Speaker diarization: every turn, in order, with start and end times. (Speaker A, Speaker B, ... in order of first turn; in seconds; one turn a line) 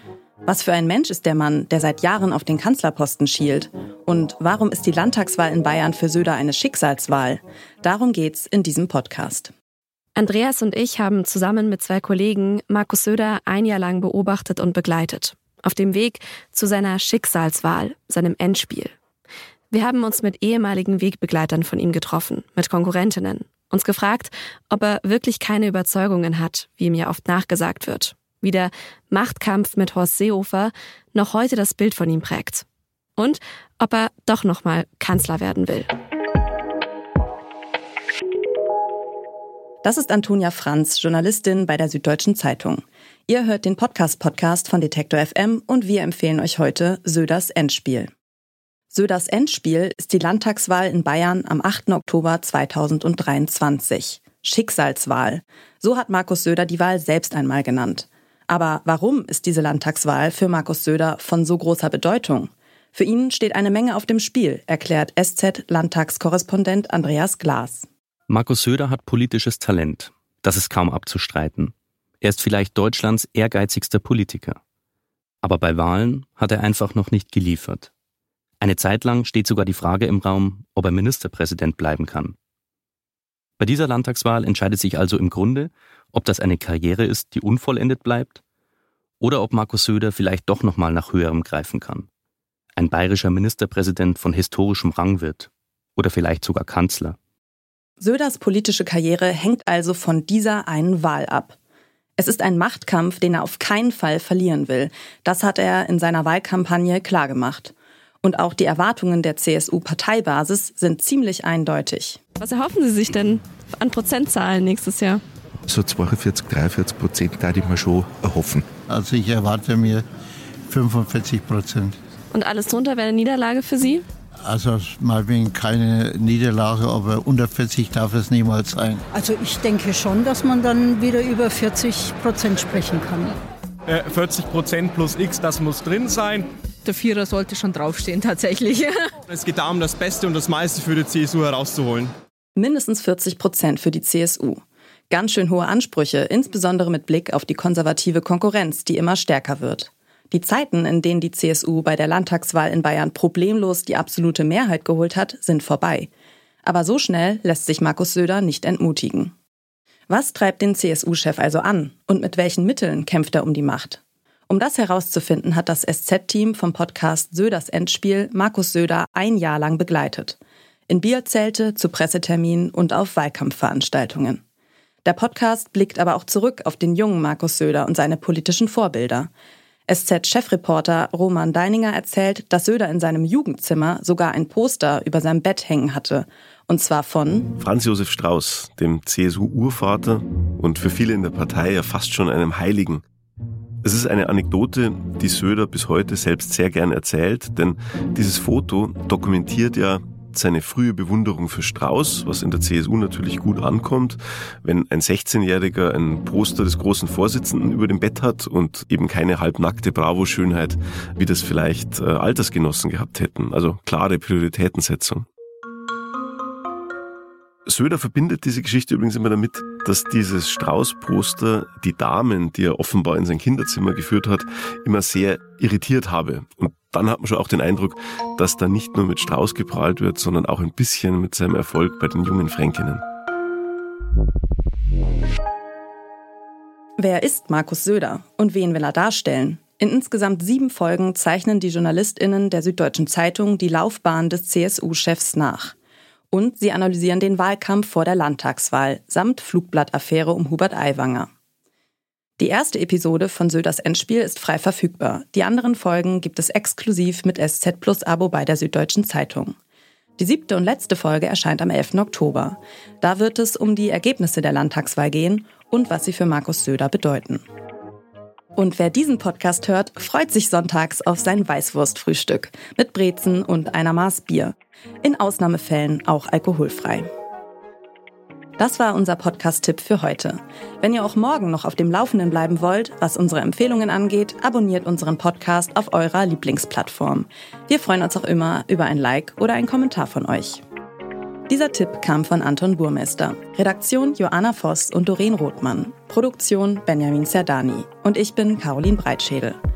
Speaker A: 0.4-9.5
Speaker B: 10.2-18.9
Speaker B: 19.7-32.6
Speaker B: 33.2-35.9
Speaker A: 39.8-48.1
Speaker A: 48.9-67.9
Speaker C: 68.3-74.6
Speaker C: 75.4-77.9
Speaker C: 78.6-82.3
Speaker C: 83.6-88.4
Speaker C: 89.2-92.1
Speaker C: 92.8-97.2
Speaker A: 98.0-101.6
Speaker A: 102.2-112.2
Speaker B: 112.4-115.2
Speaker D: 115.7-118.7
Speaker E: 118.9-120.0
Speaker E: 120.7-122.0
Speaker B: 122.3-124.0
Speaker E: 124.4-129.1
Speaker F: 129.1-133.3
Speaker G: 133.9-136.5
Speaker H: 136.8-139.2
Speaker G: 139.3-142.1
Speaker A: 142.6-156.1
Speaker A: 156.6-159.3
Speaker A: 160.1-170.4
Speaker A: 170.9-174.4
Speaker A: 175.0-179.3
Speaker A: 179.9-187.5
Speaker I: 187.6-193.0
Speaker I: 193.8-215.2
Speaker I: 217.7-233.0
Speaker A: 237.0-245.7
Speaker A: 246.3-251.3
Speaker A: 252.4-259.6
Speaker A: 260.2-267.4
Speaker A: 268.6-277.1
Speaker A: 278.6-290.6
Speaker A: 291.5-299.6